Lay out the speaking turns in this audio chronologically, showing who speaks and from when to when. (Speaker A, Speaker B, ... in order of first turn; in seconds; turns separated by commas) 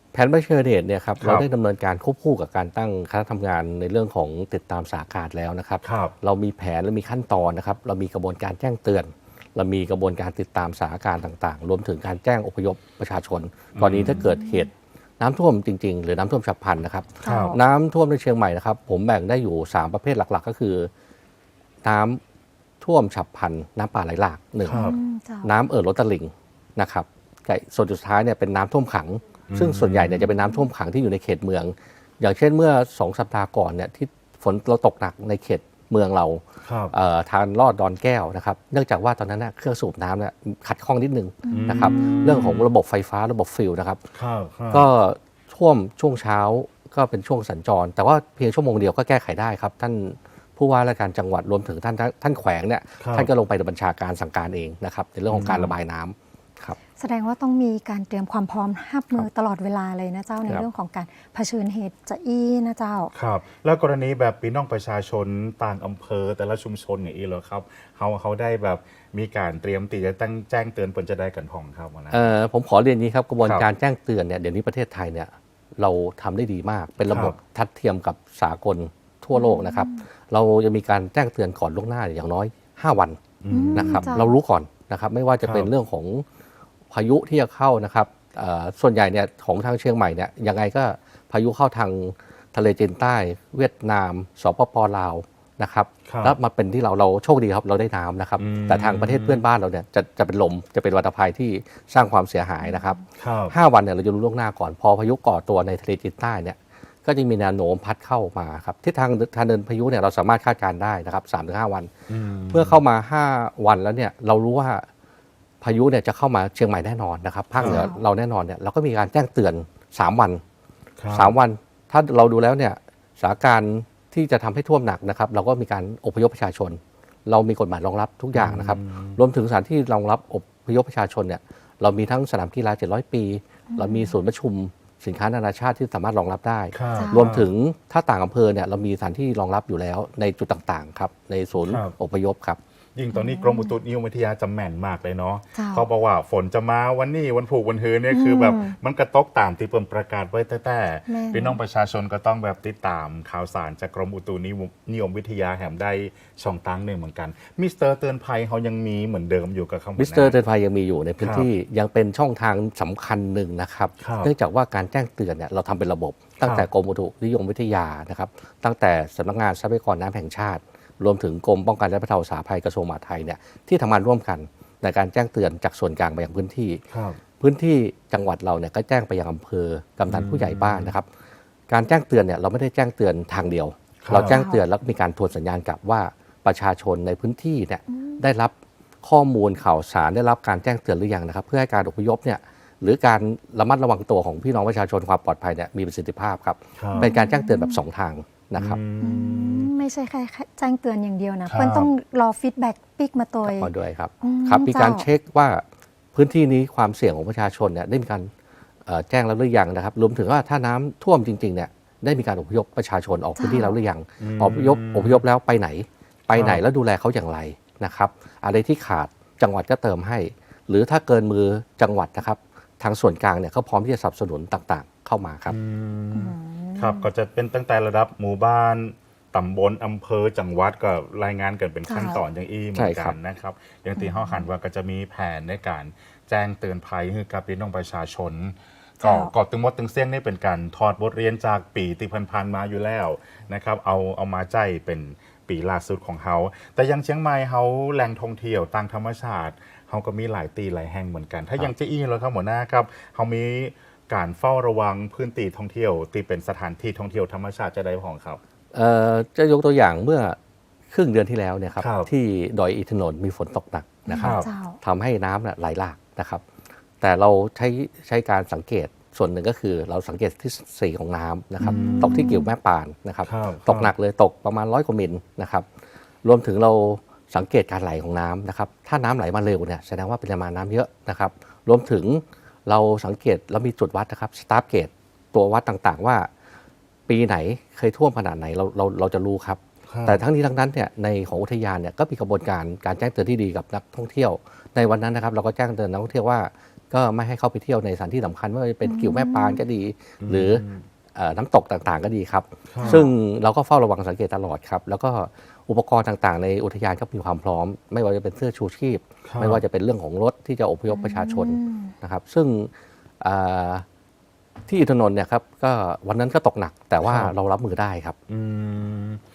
Speaker A: 0.1-20.9, Speaker B: 1.2-1.5, Speaker B: 5.8-6.1, Speaker B: 13.7-14.3, Speaker C: 14.3-14.7, Speaker C: 17.2-17.6, Speaker B: 17.2-17.5, Speaker A: 21.8-22.2, Speaker A: 22.8-24.8, Speaker B: 24.6-25.0, Speaker C: 24.7-25.5, Speaker A: 25.4-44.0, Speaker B: 29.5-30.2, Speaker B: 36.6-36.9, Speaker C: 41.4-42.2, Speaker B: 41.5-42.7, Speaker B: 44.1-44.9, Speaker A: 44.7-56.8, Speaker B: 53.0-53.3, Speaker B: 55.3-55.7, Speaker C: 57.0-63.1, Speaker B: 63.1-72.3, Speaker A: 72.1-83.2, Speaker B: 77.1-77.3, Speaker C: 79.3-80.1, Speaker B: 83.4-84.1, Speaker C: 83.5-84.3, Speaker A: 83.7-86.2, Speaker B: 85.4-85.7, Speaker A: 86.9-111.9, Speaker B: 96.0-96.4, Speaker B: 98.4-99.4, Speaker B: 103.2-103.5, Speaker B: 112.1-112.8, Speaker A: 112.5-114.9, Speaker A: 115.6-120.4, Speaker B: 117.6-117.9, Speaker C: 117.7-118.0, Speaker B: 121.0-121.3, Speaker A: 121.1-142.6, Speaker B: 128.3-129.2, Speaker C: 133.7-134.2, Speaker B: 136.7-137.5, Speaker C: 136.9-137.3, Speaker B: 141.6-141.9, Speaker B: 142.9-160.4, Speaker C: 143.1-143.7, Speaker C: 145.5-145.8, Speaker C: 148.1-148.8, Speaker C: 151.1-151.6, Speaker A: 160.0-176.8, Speaker B: 161.2-161.5, Speaker B: 164.0-164.3, Speaker B: 166.4-166.7, Speaker B: 176.9-177.2, Speaker A: 177.4-181.1, Speaker B: 180.1-180.9, Speaker A: 181.7-198.8, Speaker B: 184.0-184.4, Speaker C: 184.3-184.6, Speaker C: 187.9-188.2, Speaker B: 196.8-197.1, Speaker C: 197.0-197.8, Speaker B: 198.6-199.7, Speaker C: 199.0-205.1, Speaker B: 201.5-201.9, Speaker A: 203.4-208.3, Speaker A: 208.8-225.5, Speaker C: 213.3-213.8, Speaker B: 214.2-215.2, Speaker B: 216.3-216.6, Speaker B: 225.5-258.4, Speaker C: 226.1-227.1, Speaker C: 231.8-232.2, Speaker A: 232.7-233.2, Speaker C: 234.0-234.4, Speaker C: 239.0-239.3, Speaker A: 258.7-260.4, Speaker A: 260.9-266.4, Speaker B: 261.8-262.1, Speaker B: 264.1-264.5, Speaker C: 264.1-264.8, Speaker A: 267.0-275.6, Speaker B: 271.6-272.4, Speaker C: 271.7-272.5, Speaker B: 273.2-273.9, Speaker A: 276.2-286.3, Speaker A: 287.1-300.6, Speaker B: 289.9-290.2, Speaker C: 298.8-299.6, Speaker B: 300.2-300.8, Speaker A: 301.1-313.8, Speaker B: 302.7-303.0, Speaker B: 309.2-309.6, Speaker C: 310.9-311.9, Speaker A: 314.7-318.2, Speaker B: 317.0-317.3, Speaker B: 318.3-319.2